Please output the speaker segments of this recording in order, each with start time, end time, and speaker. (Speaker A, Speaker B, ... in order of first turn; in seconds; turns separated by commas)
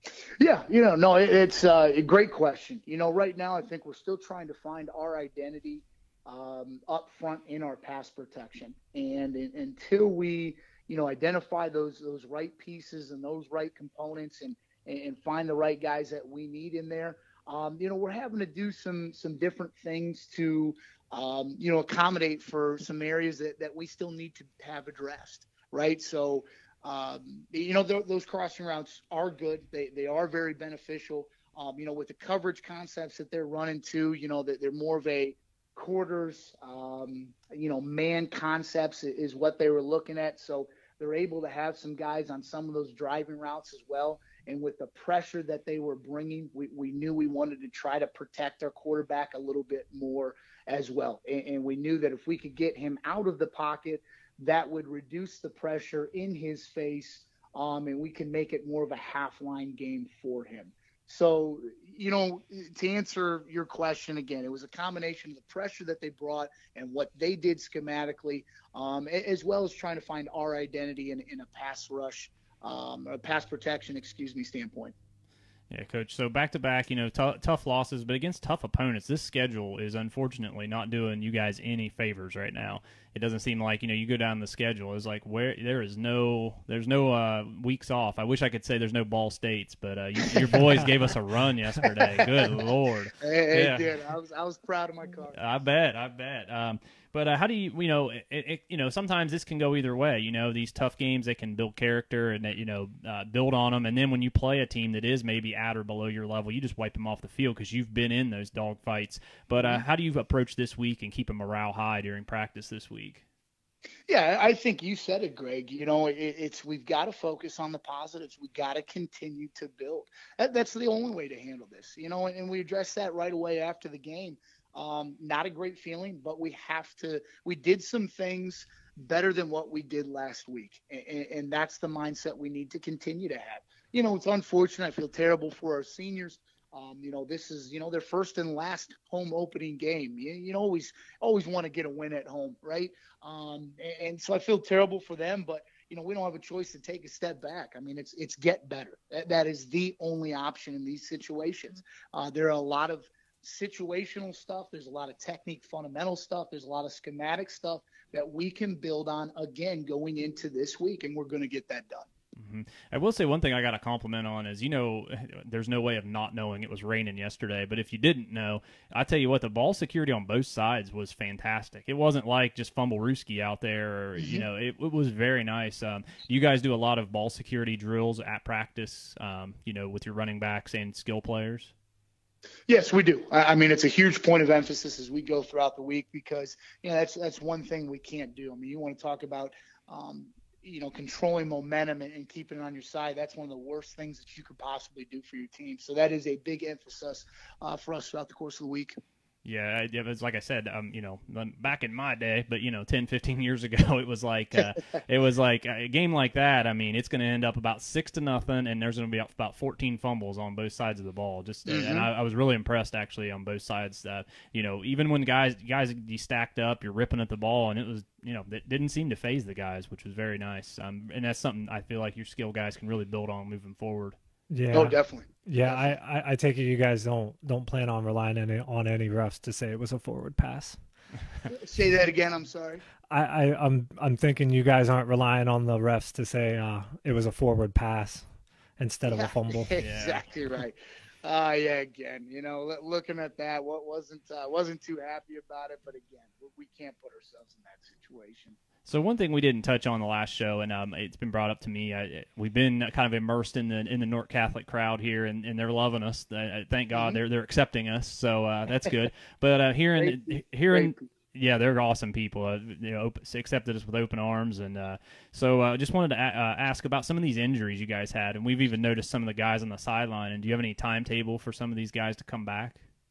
Speaker A: 0.4-75.0, Speaker B: 75.7-94.0, Speaker A: 90.2-90.6, Speaker A: 91.9-92.5, Speaker A: 93.2-95.4, Speaker B: 95.3-113.2, Speaker A: 114.1-162.1, Speaker B: 162.4-181.7, Speaker A: 174.2-174.4, Speaker A: 182.7-199.0, Speaker B: 199.4-224.2, Speaker A: 211.7-212.1, Speaker C: 224.5-230.8, Speaker A: 224.7-225.9, Speaker A: 231.5-232.8, Speaker C: 233.1-238.2, Speaker C: 238.8-239.7, Speaker A: 239.1-248.6, Speaker B: 239.8-240.2, Speaker B: 248.8-272.8, Speaker A: 256.9-257.2, Speaker A: 260.0-261.1